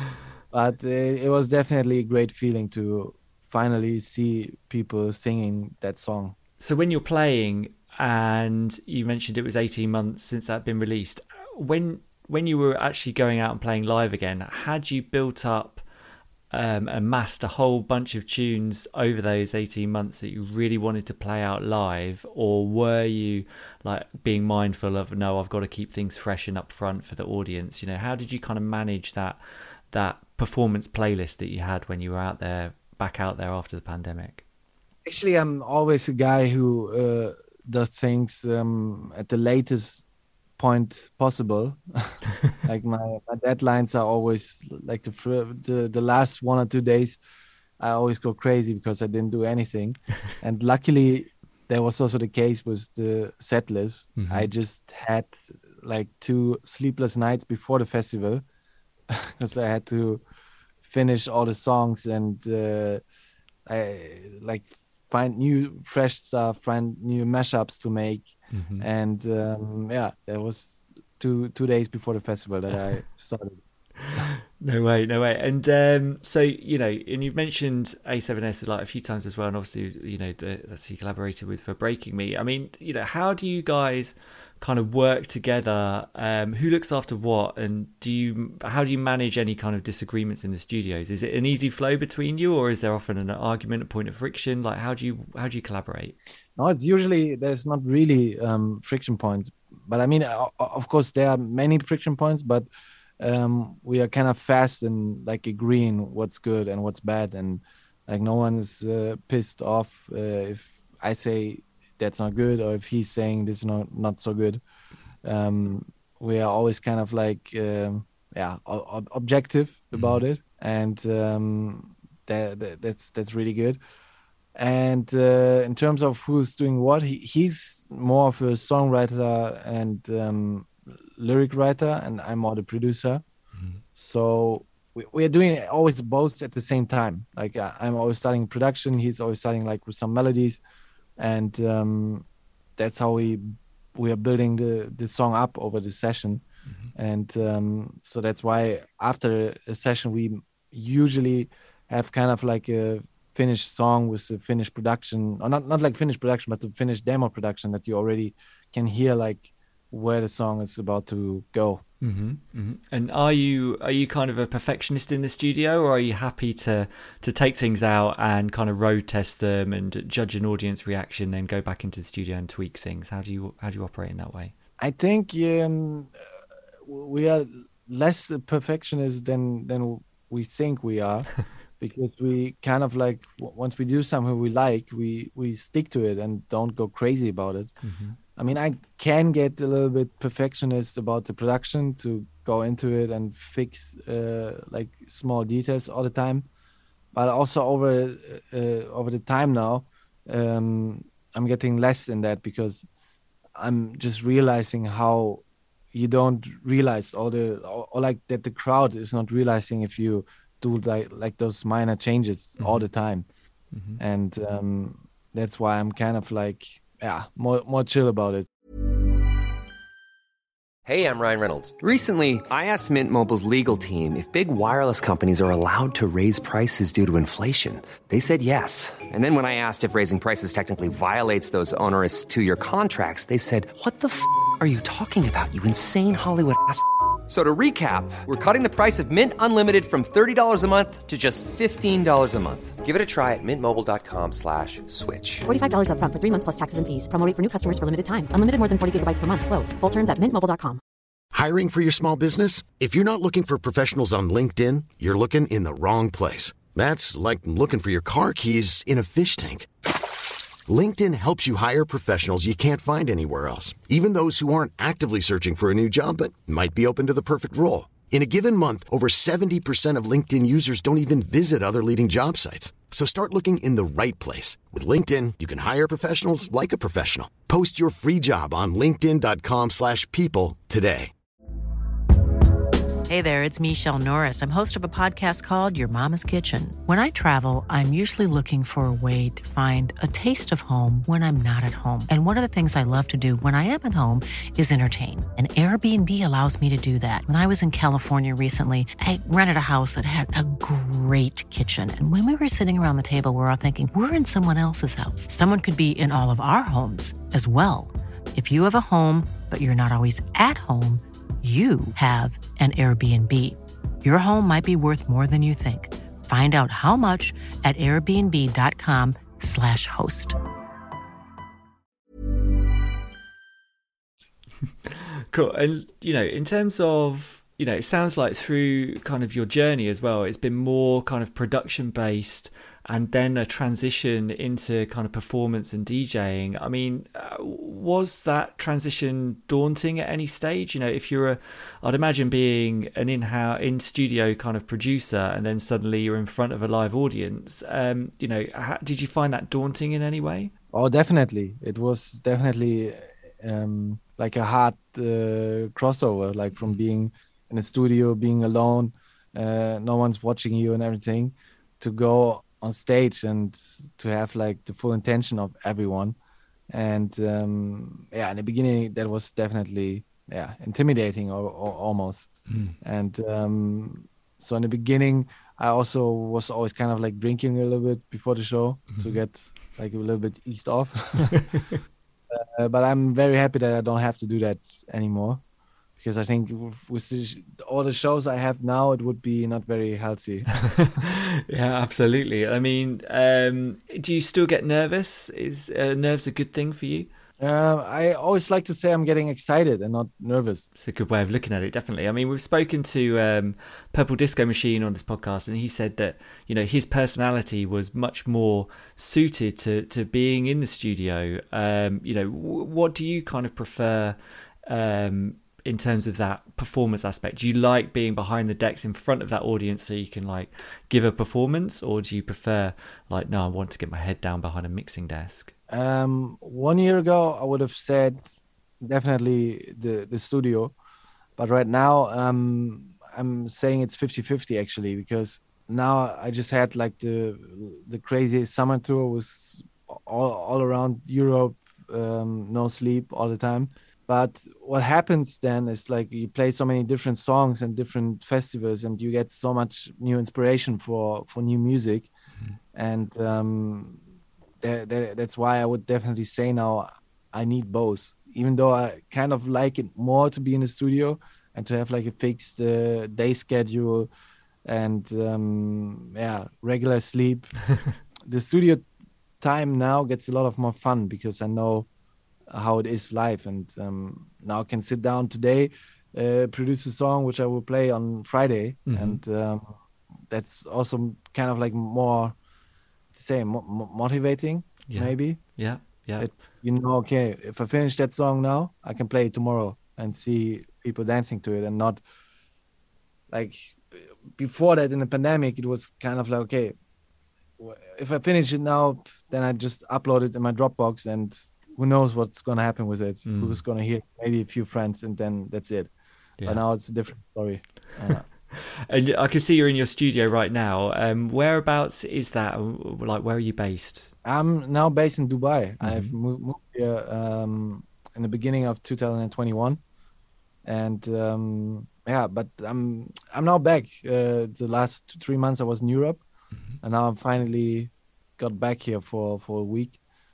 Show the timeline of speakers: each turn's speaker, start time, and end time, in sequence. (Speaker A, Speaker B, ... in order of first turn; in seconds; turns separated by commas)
Speaker A: 0.5-6.3, Speaker B: 6.6-15.8, Speaker B: 16.5-29.4, Speaker B: 29.9-34.4, Speaker A: 35.0-40.0, Speaker A: 40.6-47.2, Speaker A: 47.8-58.4, Speaker B: 54.2-54.5, Speaker A: 59.1-60.2, Speaker A: 60.8-63.0, Speaker A: 63.7-73.6, Speaker B: 68.5-68.9, Speaker B: 74.0-96.2, Speaker A: 96.6-102.7, Speaker A: 103.2-114.6, Speaker A: 115.2-123.8, Speaker B: 119.9-120.2, Speaker A: 124.5-133.2, Speaker B: 133.5-133.8, Speaker A: 133.9-140.6, Speaker A: 141.2-142.2, Speaker A: 142.8-146.4, Speaker A: 146.9-161.8, Speaker B: 162.0-174.5, Speaker A: 174.8-176.2, Speaker A: 176.8-187.7, Speaker B: 187.8-188.2, Speaker A: 188.3-196.5, Speaker A: 197.1-202.8, Speaker A: 203.6-213.2, Speaker B: 212.6-212.9, Speaker B: 213.7-214.0, Speaker A: 214.0-218.5, Speaker C: 220.8-245.5, Speaker D: 245.4-250.8, Speaker E: 251.3-259.7, Speaker E: 260.7-281.1, Speaker F: 283.1-320.4, Speaker B: 324.8-350.5, Speaker A: 350.7-366.1, Speaker A: 366.7-381.4, Speaker B: 372.5-372.8, Speaker B: 378.9-379.2, Speaker B: 381.5-381.8, Speaker A: 382.3-385.4, Speaker A: 386.0-390.5, Speaker B: 390.6-397.1, Speaker A: 397.4-400.6, Speaker B: 400.8-425.5, Speaker A: 425.7-428.2, Speaker A: 428.8-430.7, Speaker A: 431.4-452.1, Speaker A: 452.7-454.0, Speaker A: 454.6-464.1, Speaker A: 464.6-467.5, Speaker A: 468.2-468.8, Speaker A: 469.4-471.9, Speaker A: 472.5-479.7, Speaker B: 478.9-479.2, Speaker A: 480.3-482.4, Speaker A: 483.1-485.6, Speaker B: 484.9-486.3, Speaker A: 486.2-492.0, Speaker A: 493.3-496.7, Speaker A: 497.6-505.9, Speaker B: 503.2-503.6, Speaker A: 506.4-508.2, Speaker B: 508.5-514.1, Speaker A: 514.2-519.8, Speaker B: 515.8-516.1, Speaker A: 520.6-526.2, Speaker A: 526.8-530.0